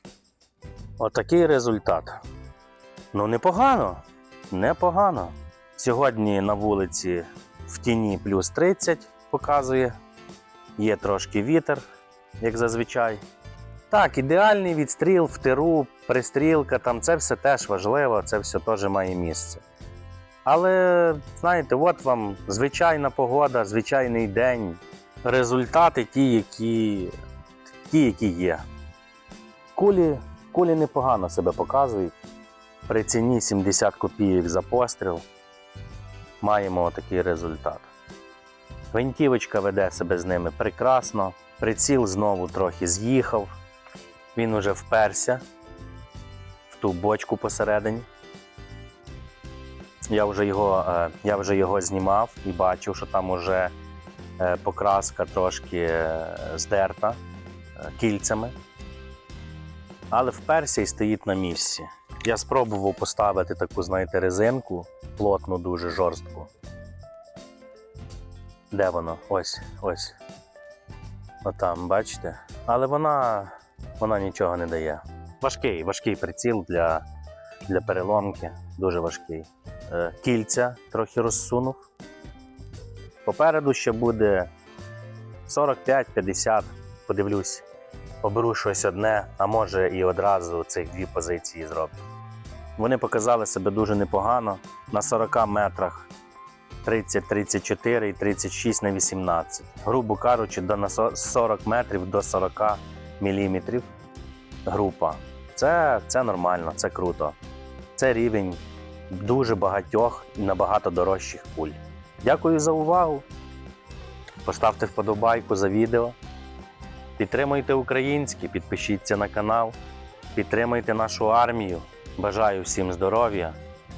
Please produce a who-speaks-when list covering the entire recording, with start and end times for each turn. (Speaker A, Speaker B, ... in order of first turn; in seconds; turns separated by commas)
Speaker A: 1.0-2.2, Speaker A: 3.1-10.0, Speaker A: 10.8-11.8, Speaker A: 12.4-13.2, Speaker A: 13.9-19.6, Speaker A: 20.4-27.1, Speaker A: 27.9-28.6, Speaker A: 29.8-32.1, Speaker A: 32.9-35.2, Speaker A: 36.4-37.9, Speaker A: 38.9-43.5, Speaker A: 44.4-45.4, Speaker A: 46.7-48.1, Speaker A: 50.1-53.7, Speaker A: 54.4-57.2, Speaker A: 57.8-58.5, Speaker A: 60.1-66.5, Speaker A: 68.7-70.2, Speaker A: 71.4-77.1, Speaker A: 77.7-81.8, Speaker A: 83.2-84.5, Speaker A: 85.5-87.7, Speaker A: 88.2-92.0, Speaker A: 92.8-96.1, Speaker A: 96.8-103.9, Speaker A: 104.7-107.4, Speaker A: 108.0-113.2, Speaker A: 114.4-116.2, Speaker A: 117.2-119.8, Speaker A: 120.3-123.6